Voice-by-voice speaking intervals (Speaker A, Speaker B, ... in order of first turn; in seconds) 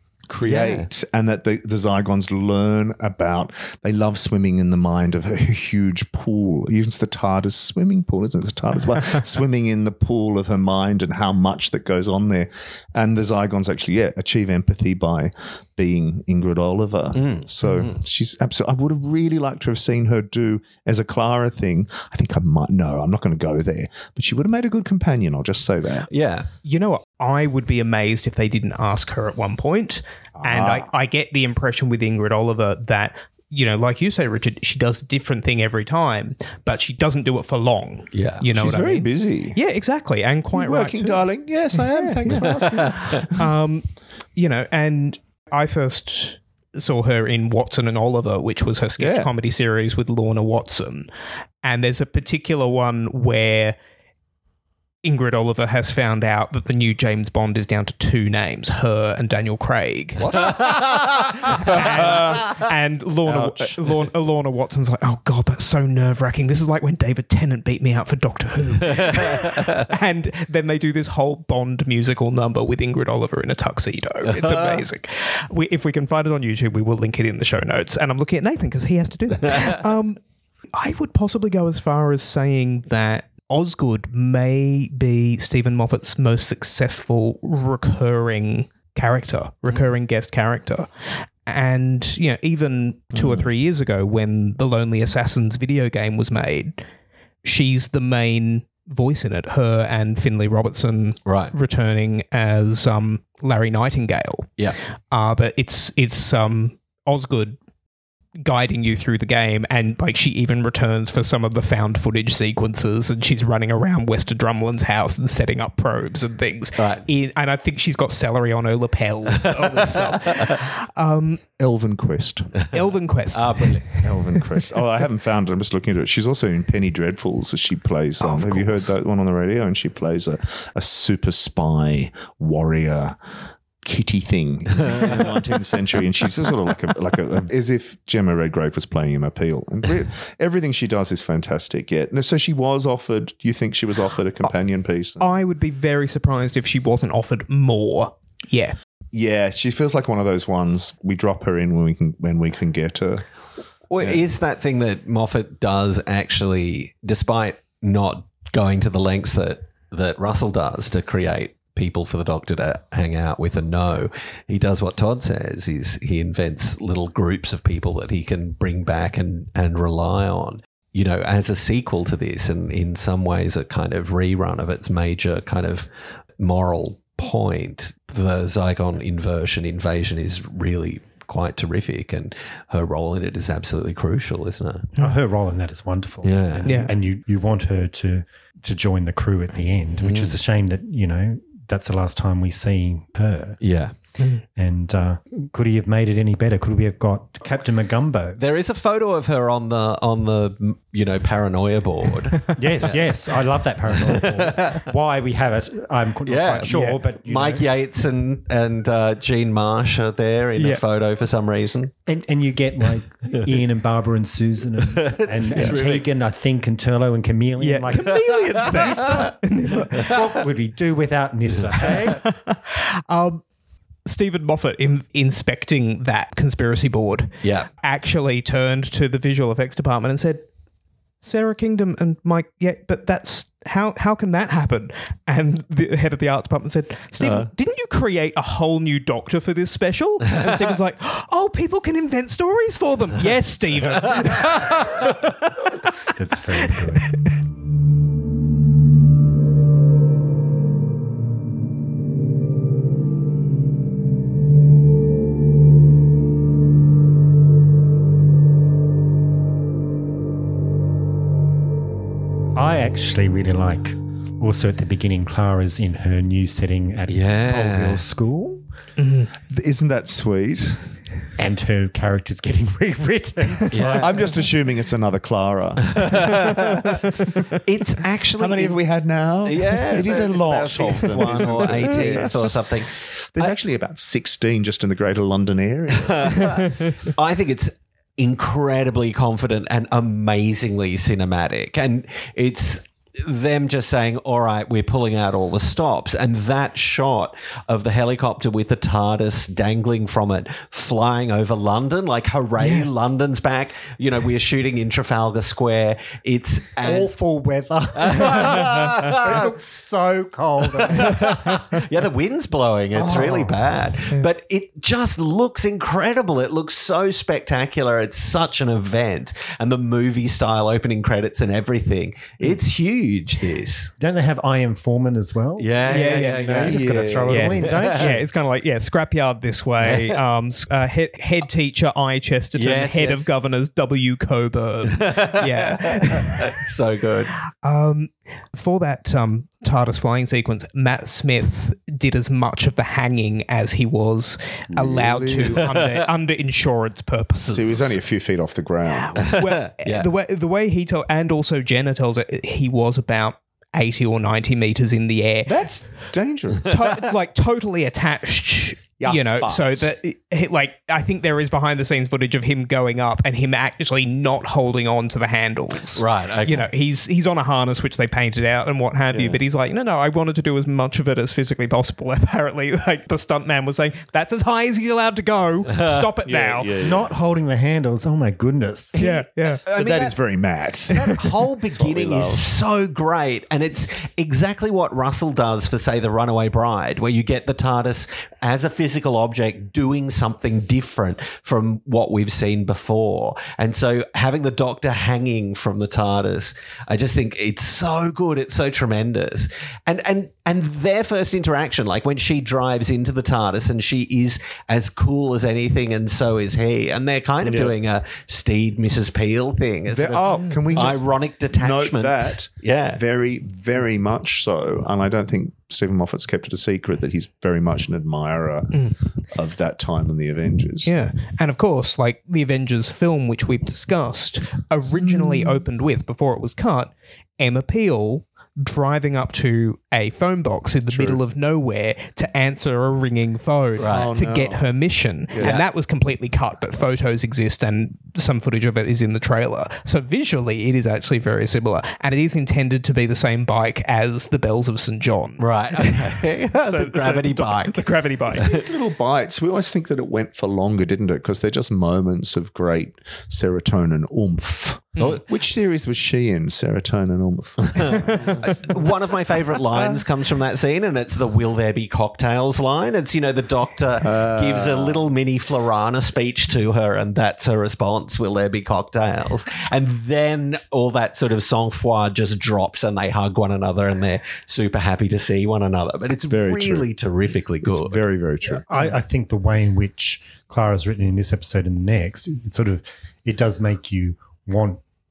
Speaker A: 0.3-26.1, 30.4-30.9, 38.5-39.6, 40.5-43.5, 49.0-49.3, 60.2-62.6, 63.2-63.8, 93.1-93.5, 121.6-122.7, 124.0-133.2, 133.8-145.3, 149.1-153.2, 154.0-154.2, 269.5-270.9, 274.0-276.5, 278.4-286.7, 326.6-327.6, 344.7-345.6, 347.5-349.4, 355.4-356.7, 359.0-359.9, 376.2-377.1, 379.7-382.5, 407.4-407.7, 409.9-420.9, 425.0-425.5, 430.9-431.2, 433.9-434.6, 435.3-435.6, 448.3-458.9, 464.0-465.1, 476.3-476.9, 477.6-478.6
Speaker B: 0.4-0.9, 17.1-18.0, 26.1-26.5, 38.1-38.4, 42.3-43.2, 60.4-61.0, 68.9-69.8, 74.3-74.8, 101.2-101.5, 116.8-117.0, 119.4-120.6, 123.3-124.0, 153.9-184.9, 186.2-186.8, 190.0-190.4, 193.6-193.9, 198.4-203.3, 203.9-204.8, 206.2-211.9, 214.8-216.0, 217.9-219.3, 227.4-227.7, 244.2-244.5, 267.1-268.0, 273.7-274.2, 275.9-276.9, 277.5-278.8, 279.4-283.6, 286.0-307.1, 307.9-309.5, 310.8-323.9, 325.6-328.1, 329.8-330.2, 332.6-333.3, 334.9-337.3, 345.6-346.0, 349.2-350.1, 365.9-366.7, 375.7-376.0, 378.9-380.2, 380.9-413.0, 433.8-434.1, 435.4-435.6, 445.4-448.6, 455.0-455.2, 457.8-478.1
Speaker C: 26.6-41.2, 41.8-51.1, 51.6-53.8, 55.0-60.6, 61.5-80.2, 80.7-96.8, 97.4-104.6, 105.1-107.6, 108.3-121.4, 122.7-124.4, 128.2-128.8, 145.2-148.7, 186.7-186.9, 206.6-207.0, 210.6-210.8, 217.6-220.2, 221.9-223.4, 224.0-230.5, 231.2-245.9, 269.0-269.3, 302.6-302.9, 325.9-326.7, 327.3-336.5, 337.5-348.0, 348.9-355.6, 356.7-376.7, 378.9-379.6, 410.2-410.9, 420.9-448.5, 454.9-455.2, 457.8-458.5
Speaker D: 185.0-193.6, 194.5-198.4, 202.6-207.7, 212.1-222.2, 246.1-247.2, 262.5-268.6, 271.4-274.4, 306.8-311.8, 312.9-313.6, 324.0-328.2, 376.8-378.9, 478.7-484.8